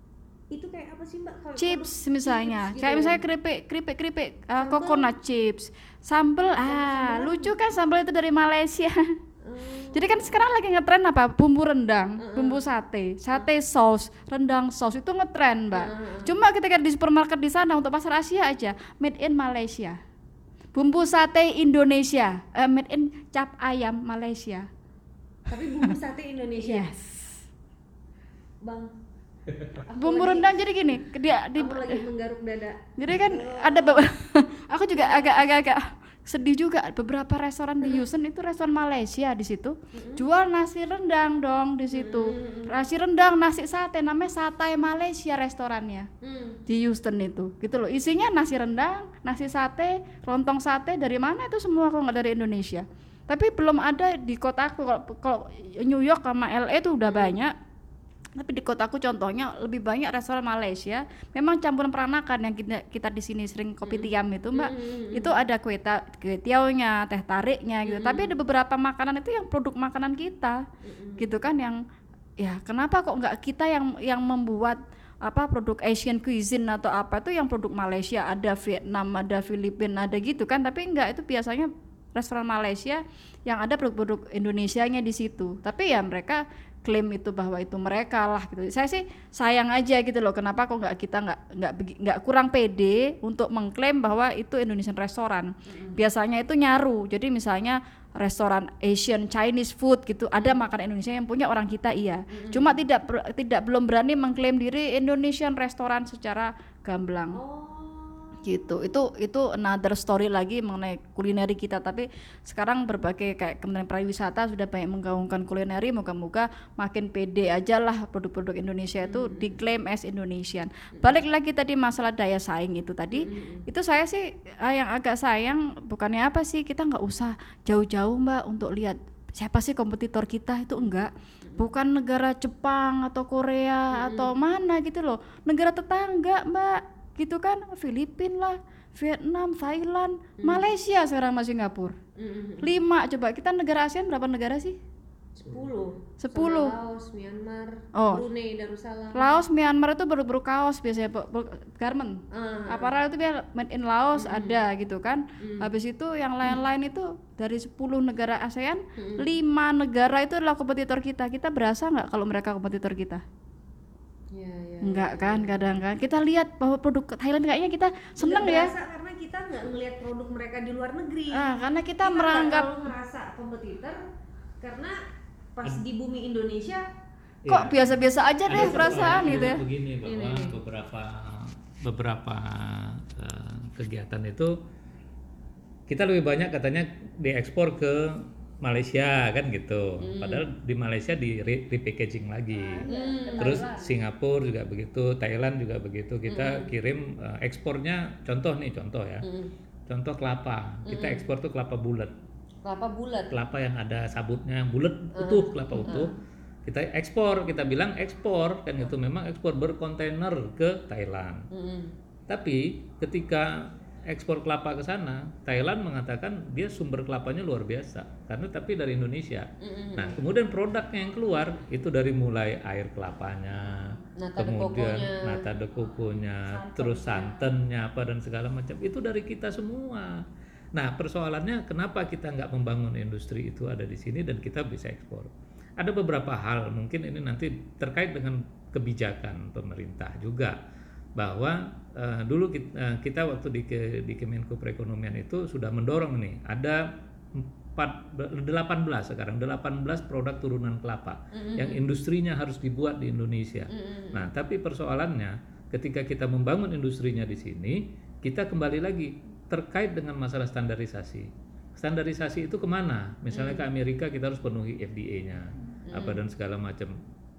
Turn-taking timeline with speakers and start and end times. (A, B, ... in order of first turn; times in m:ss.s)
0:00.5-0:03.2 A
0:01.6-0:09.2 B
0:04.6-0:05.1 A
0:06.6-0:07.5 A
0:09.4-0:10.3 A
0:09.9-0:20.0 B
0:12.2-0:12.6 A
0:15.7-0:16.4 A
0:20.7-0:24.7 B
0:25.5-0:27.0 A
0:26.6-0:27.3 B
0:28.6-0:29.0 A
0:29.8-0:31.0 A
0:30.0-0:32.0 B
0:31.6-0:34.0 A
0:33.0-0:46.1 B
0:34.9-0:35.4 A
0:39.9-0:40.2 A
0:41.9-0:42.8 A
0:46.2-0:46.6 A
0:46.7-0:57.5 B
0:57.0-0:57.4 A
0:58.4-1:10.6 B
1:03.8-1:05.4 A
1:07.8-1:08.3 A
1:10.8-1:11.2 A
1:11.2-1:11.8 B
1:12.4-1:47.4 B
1:35.6-1:36.0 A
1:42.3-1:42.8 A
1:47.3-1:49.0 A
1:48.4-2:22.0 B
1:59.0-1:59.6 A
2:03.1-2:03.6 A
2:13.9-2:14.3 A
2:22.2-2:22.8 A
2:22.6-2:24.8 B
2:25.4-2:29.4 A
2:26.2-2:26.7 B
2:27.9-2:28.2 B
2:29.1-2:43.2 B
2:32.3-2:33.0 A
2:34.1-2:34.6 A
2:35.4-2:35.7 A
2:39.0-2:39.2 A
2:44.3-2:45.8 A
2:44.8-2:48.7 B
2:48.2-2:51.5 A
2:51.3-2:52.7 B
2:52.0-2:54.0 A
2:54.6-2:55.0 A
2:55.6-2:56.8 A
2:57.4-2:57.8 C
2:57.5-2:59.6 B
2:58.5-3:04.6 C
2:58.5-3:00.5 A
3:05.9-3:12.8 C
3:10.0-3:10.5 A
3:12.5-3:13.9 B
3:12.9-3:13.6 A
3:13.4-3:19.2 C
3:16.3-3:16.7 A
3:19.2-3:19.5 A
3:19.9-3:22.1 C
3:20.8-3:21.3 A
3:22.6-3:23.3 A
3:23.3-3:31.5 C
3:25.1-3:26.2 A
3:31.5-3:31.9 A
3:32.3-4:00.6 C
3:39.6-3:40.2 A
3:44.2-3:45.5 A
3:46.7-3:47.3 A
4:01.2-4:26.9 C
4:11.3-4:11.8 A
4:13.7-4:14.3 A
4:23.3-4:23.6 A
4:25.9-4:26.2 A